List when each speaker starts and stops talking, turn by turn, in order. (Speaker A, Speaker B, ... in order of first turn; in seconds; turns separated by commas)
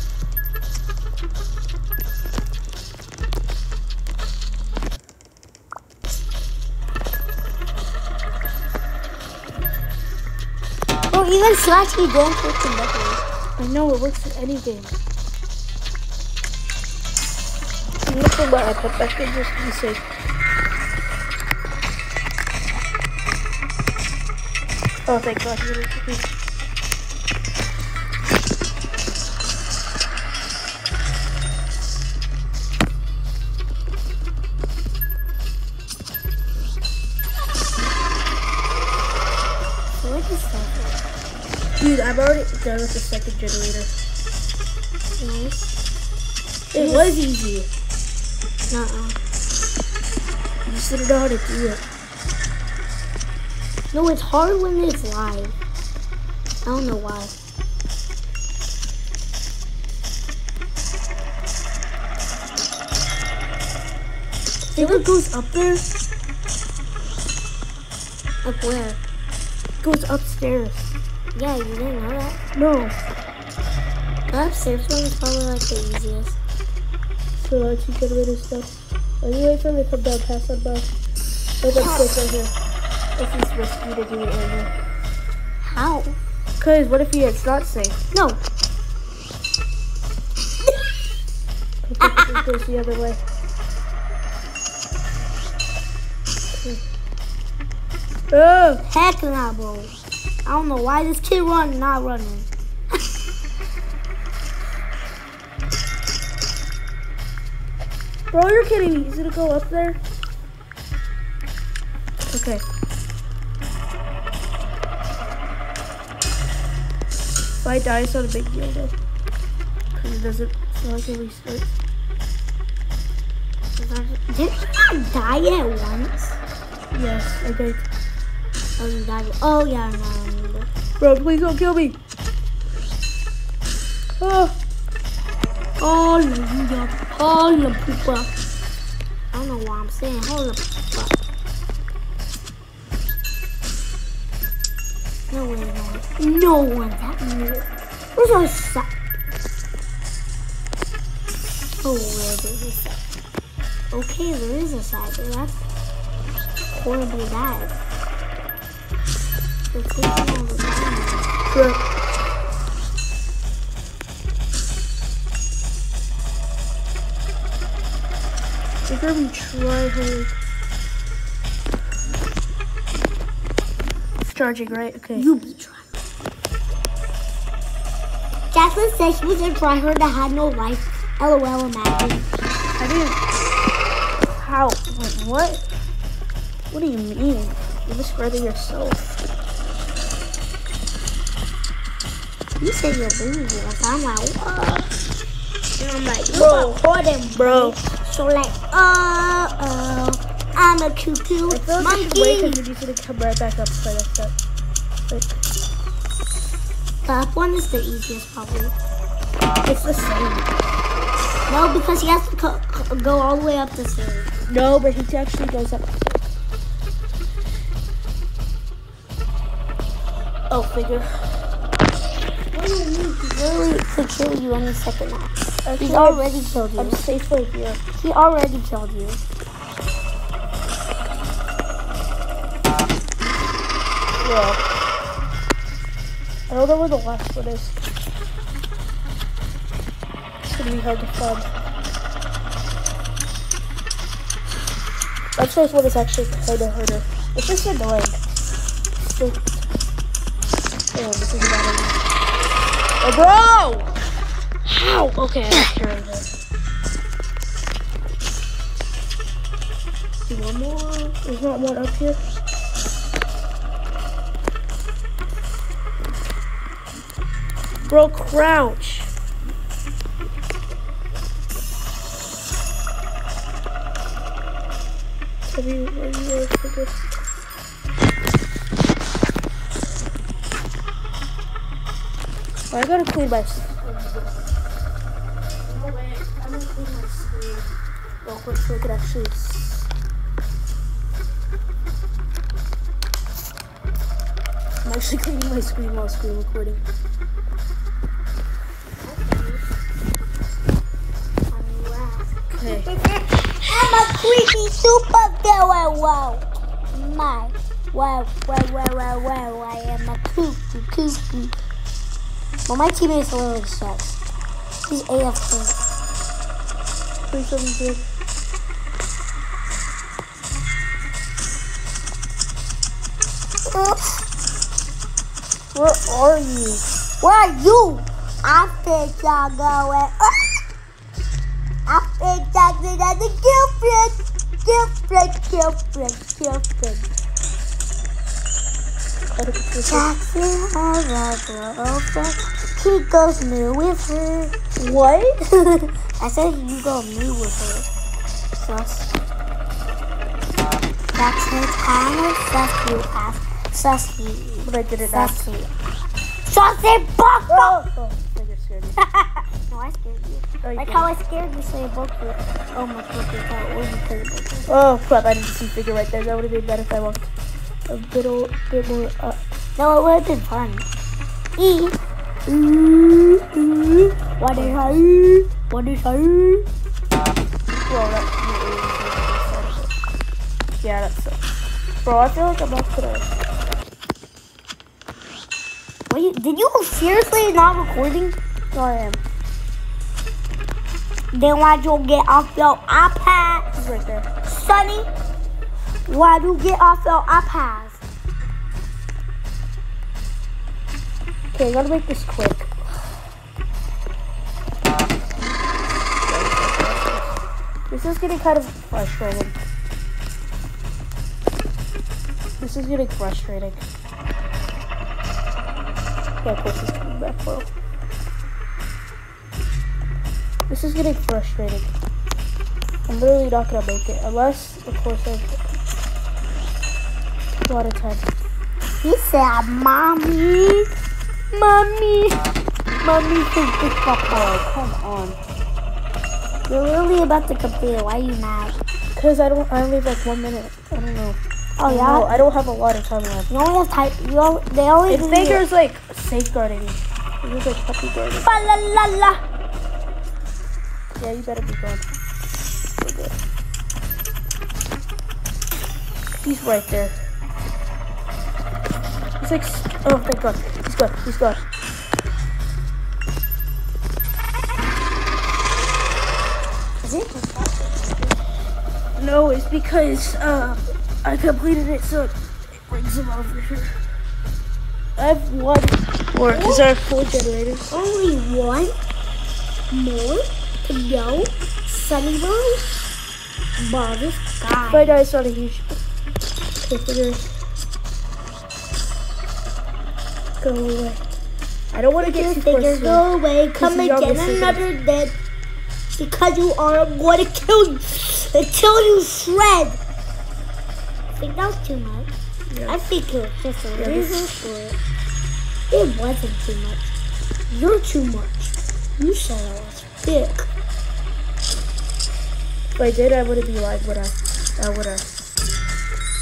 Speaker A: 11.1-13.2, Speaker B: 13.6-15.0, Speaker B: 18.1-20.0, Speaker B: 25.1-26.3, Speaker A: 40.0-41.0, Speaker B: 41.8-43.9, Speaker A: 45.2-45.8, Speaker B: 46.7-47.7, Speaker A: 46.8-47.1, Speaker A: 48.7-49.2, Speaker B: 50.7-51.8, Speaker A: 53.9-55.6, Speaker A: 56.6-57.4, Speaker B: 64.7-65.9, Speaker A: 64.8-65.1, Speaker A: 68.4-69.0, Speaker B: 69.8-70.9, Speaker A: 71.3-72.4, Speaker B: 72.5-72.9, Speaker A: 74.3-76.4, Speaker B: 77.4-80.9, Speaker B: 81.6-82.5, Speaker A: 81.8-82.1, Speaker B: 83.2-84.7, Speaker A: 85.6-86.2, Speaker B: 86.6-88.0, Speaker A: 88.1-88.4, Speaker B: 91.8-93.2, Speaker A: 92.0-92.4, Speaker B: 96.5-96.8, Speaker B: 98.3-98.8, Speaker A: 98.9-103.0, Speaker B: 108.3-110.0, Speaker B: 112.3-112.6, Speaker B: 117.6-118.9, Speaker B: 119.9-121.8, Speaker A: 123.8-126.4, Speaker B: 126.9-127.8, Speaker A: 128.8-130.7, Speaker B: 131.0-132.0, Speaker B: 134.2-134.6, Speaker A: 135.8-138.3, Speaker A: 139.3-141.2, Speaker A: 145.3-148.9, Speaker A: 151.8-153.0, Speaker A: 153.9-155.7, Speaker A: 156.7-157.8, Speaker A: 159.7-161.3, Speaker B: 161.5-161.8, Speaker B: 168.9-170.3, Speaker B: 174.2-175.3, Speaker A: 175.2-176.0, Speaker A: 178.5-182.3, Speaker B: 182.8-183.2, Speaker B: 184.4-185.7, Speaker B: 186.7-189.1, Speaker A: 192.6-194.9, Speaker A: 195.8-202.6, Speaker B: 196.3-197.8, Speaker B: 201.5-204.4, Speaker B: 205.1-205.4, Speaker A: 207.0-208.8, Speaker B: 209.7-210.5, Speaker A: 211.5-214.3, Speaker B: 214.5-216.3, Speaker B: 220.5-221.1, Speaker A: 222.5-227.0, Speaker B: 225.7-227.8, Speaker A: 228.0-229.2, Speaker B: 234.2-234.6, Speaker B: 236.5-237.8, Speaker B: 240.4-241.5, Speaker B: 245.4-248.2, Speaker B: 249.0-249.6, Speaker B: 250.9-252.0, Speaker B: 253.0-253.9, Speaker B: 254.6-256.3, Speaker A: 260.3-261.2, Speaker B: 261.2-262.2, Speaker B: 267.9-269.1, Speaker B: 275.5-276.9, Speaker B: 282.7-284.5, Speaker B: 285.6-289.9, Speaker B: 294.8-296.8, Speaker A: 299.0-299.7, Speaker A: 301.5-311.6, Speaker B: 302.5-302.9, Speaker A: 312.7-314.2, Speaker A: 314.8-315.8, Speaker B: 317.3-318.1, Speaker A: 323.6-324.2, Speaker B: 325.7-326.8, Speaker A: 327.2-330.6, Speaker A: 331.9-337.1, Speaker B: 339.3-340.1, Speaker A: 339.9-344.6, Speaker B: 344.8-345.4, Speaker A: 345.6-347.9, Speaker A: 348.5-349.1, Speaker A: 351.1-355.7, Speaker B: 354.6-355.5, Speaker A: 356.5-357.8, Speaker B: 357.5-359.0, Speaker A: 359.0-364.7, Speaker B: 360.6-361.1, Speaker B: 364.7-367.3, Speaker B: 367.9-369.4, Speaker A: 369.8-370.9, Speaker A: 371.6-376.7, Speaker B: 374.5-375.1, Speaker B: 377.9-379.9, Speaker B: 380.8-381.4, Speaker B: 382.0-383.3, Speaker A: 386.1-388.4, Speaker B: 388.7-389.2, Speaker A: 391.3-393.7, Speaker B: 393.8-394.3, Speaker A: 394.4-395.1, Speaker A: 396.1-398.0, Speaker B: 401.5-402.7, Speaker B: 406.3-409.6, Speaker B: 412.6-413.9, Speaker B: 416.4-417.7, Speaker B: 420.7-421.9, Speaker B: 423.1-425.7, Speaker B: 427.7-428.3, Speaker A: 429.0-430.9, Speaker A: 431.5-432.4, Speaker A: 433.0-434.6, Speaker B: 434.3-435.4, Speaker A: 436.7-438.8, Speaker B: 439.1-443.5, Speaker A: 441.8-442.5, Speaker A: 443.5-445.6, Speaker B: 445.1-448.5, Speaker A: 448.4-449.4, Speaker B: 451.2-452.1, Speaker B: 452.9-453.4, Speaker B: 456.4-457.2, Speaker B: 459.4-461.6, Speaker A: 467.0-468.4, Speaker B: 469.2-473.9, Speaker B: 475.2-478.0, Speaker A: 476.5-476.8, Speaker A: 477.9-479.0, Speaker A: 479.9-483.0, Speaker A: 483.8-485.2, Speaker B: 484.9-485.9, Speaker B: 486.8-487.4, Speaker B: 490.6-491.2, Speaker B: 491.9-494.9, Speaker A: 492.2-495.4, Speaker A: 496.2-500.0, Speaker A: 501.4-502.3, Speaker B: 502.7-503.0, Speaker A: 502.9-505.0, Speaker B: 503.9-504.6, Speaker A: 505.9-507.1, Speaker A: 507.7-509.4, Speaker B: 509.4-510.0, Speaker A: 510.0-510.7, Speaker B: 513.0-515.3